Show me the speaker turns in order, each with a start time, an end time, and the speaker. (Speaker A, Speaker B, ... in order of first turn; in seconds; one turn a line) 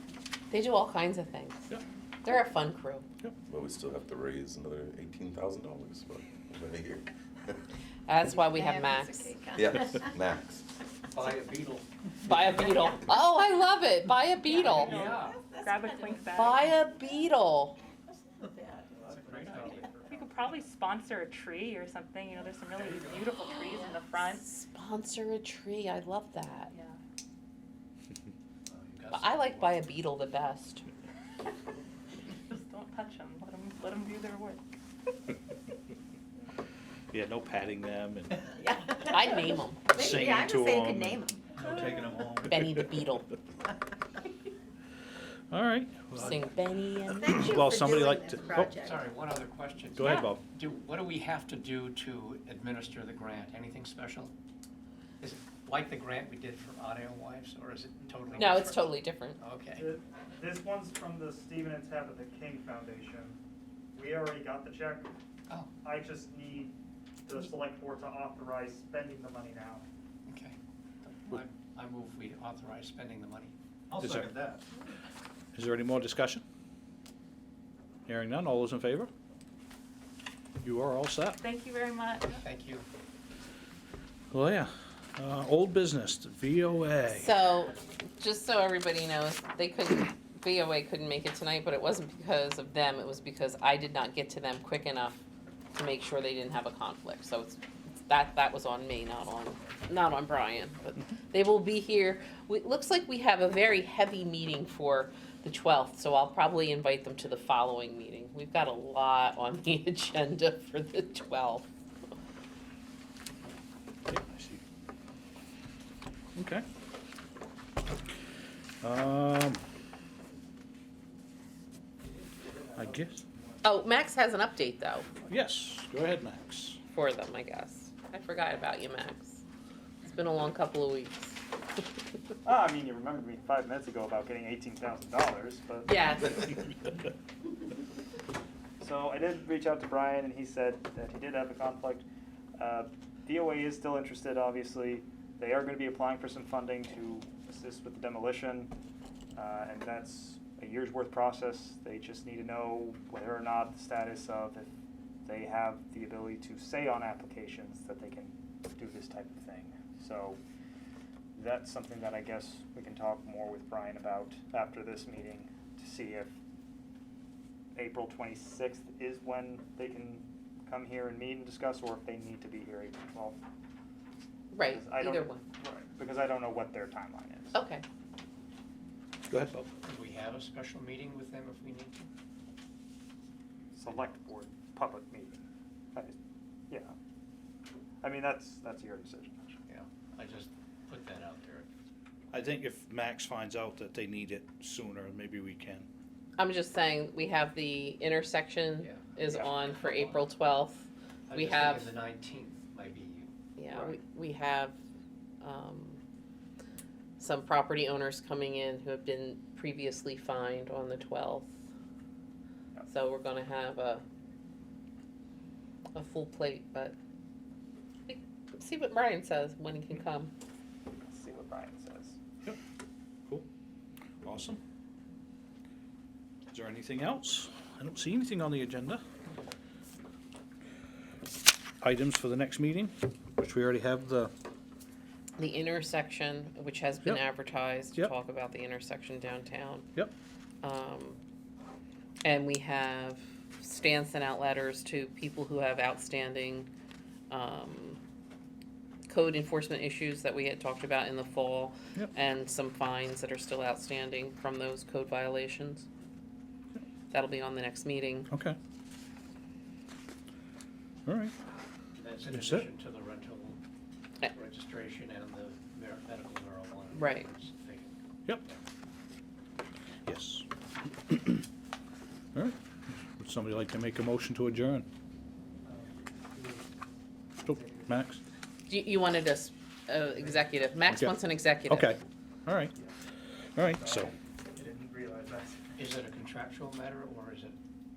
Speaker A: 0.5-1.7
Speaker A: 2.2-3.0
Speaker B: 3.5-7.6
Speaker A: 8.1-9.3
Speaker C: 8.5-10.1
Speaker B: 9.5-10.7
Speaker D: 11.1-11.9
Speaker A: 12.2-14.9
Speaker D: 14.6-15.4
Speaker E: 14.7-16.6
Speaker C: 15.3-16.2
Speaker A: 16.3-17.8
Speaker C: 18.4-18.8
Speaker F: 18.9-20.6
Speaker D: 19.0-19.9
Speaker E: 20.0-24.5
Speaker A: 23.8-26.7
Speaker E: 26.7-27.0
Speaker D: 28.7-29.8
Speaker A: 29.1-30.9
Speaker E: 32.4-34.6
Speaker G: 37.1-38.4
Speaker C: 38.7-39.1
Speaker A: 39.0-39.9
Speaker G: 39.9-42.8
Speaker C: 39.9-41.4
Speaker E: 41.6-42.1
Speaker A: 42.4-43.3
Speaker G: 45.5-46.5
Speaker A: 46.2-47.5
Speaker G: 47.1-48.7
Speaker C: 47.2-49.0
Speaker D: 48.8-54.3
Speaker G: 49.9-50.4
Speaker D: 55.2-59.9
Speaker F: 58.0-58.9
Speaker A: 58.4-59.4
Speaker F: 59.7-63.4
Speaker F: 63.9-65.1
Speaker F: 65.8-69.8
Speaker D: 70.3-73.5
Speaker F: 73.9-74.4
Speaker G: 74.0-74.3
Speaker G: 75.5-76.4
Speaker G: 78.0-79.1
Speaker G: 80.6-81.4
Speaker E: 81.4-82.4
Speaker D: 82.3-82.8
Speaker G: 84.3-87.3
Speaker A: 87.1-95.2
Speaker A: 95.7-111.7
Speaker G: 114.1-114.6
Speaker G: 116.3-116.7
Speaker G: 118.8-119.6
Speaker G: 122.8-123.2
Speaker A: 123.6-125.1
Speaker G: 125.2-126.8
Speaker A: 126.9-129.4
Speaker A: 130.0-131.4
Speaker F: 132.4-136.1
Speaker A: 135.8-136.6
Speaker F: 138.8-142.0
Speaker F: 142.6-148.7
Speaker F: 149.3-154.7
Speaker F: 155.2-160.4
Speaker F: 161.3-166.3
Speaker F: 167.7-173.4
Speaker A: 174.5-175.4
Speaker F: 174.6-177.6
Speaker A: 177.5-177.8
Speaker G: 179.3-179.7
Speaker D: 179.8-181.9
Speaker F: 183.7-185.4
Speaker F: 188.0-189.6
Speaker D: 189.7-191.7
Speaker G: 192.3-195.9
Speaker A: 196.4-201.9
Speaker D: 198.8-200.3
Speaker D: 201.3-203.3
Speaker A: 203.6-204.8
Speaker A: 205.4-206.0
Speaker A: 207.2-211.6
Speaker A: 212.9-214.0
Speaker A: 215.9-216.9
Speaker A: 218.1-220.3
Speaker F: 221.1-222.2
Speaker G: 224.2-224.6
Speaker G: 226.5-229.0
Speaker G: 231.8-234.3
Speaker A: 235.4-239.9
Speaker A: 240.6-241.2
Speaker A: 242.2-246.7
Speaker A: 247.3-248.0
Speaker A: 249.1-255.8
Speaker A: 257.1-258.3
Speaker G: 258.3-258.6
Speaker G: 261.1-261.3
Speaker D: 261.9-263.6
Speaker G: 262.2-262.7
Speaker D: 264.2-267.9
Speaker A: 266.9-267.3
Speaker G: 270.1-271.5
Speaker G: 273.2-274.9
Speaker F: 275.6-276.7
Speaker G: 277.4-278.2
Speaker F: 277.4-278.0
Speaker A: 278.7-282.0
Speaker F: 280.2-280.5
Speaker G: 280.9-281.2
Speaker G: 281.7-282.7
Speaker G: 283.6-284.1
Speaker F: 283.7-285.9
Speaker D: 285.8-287.6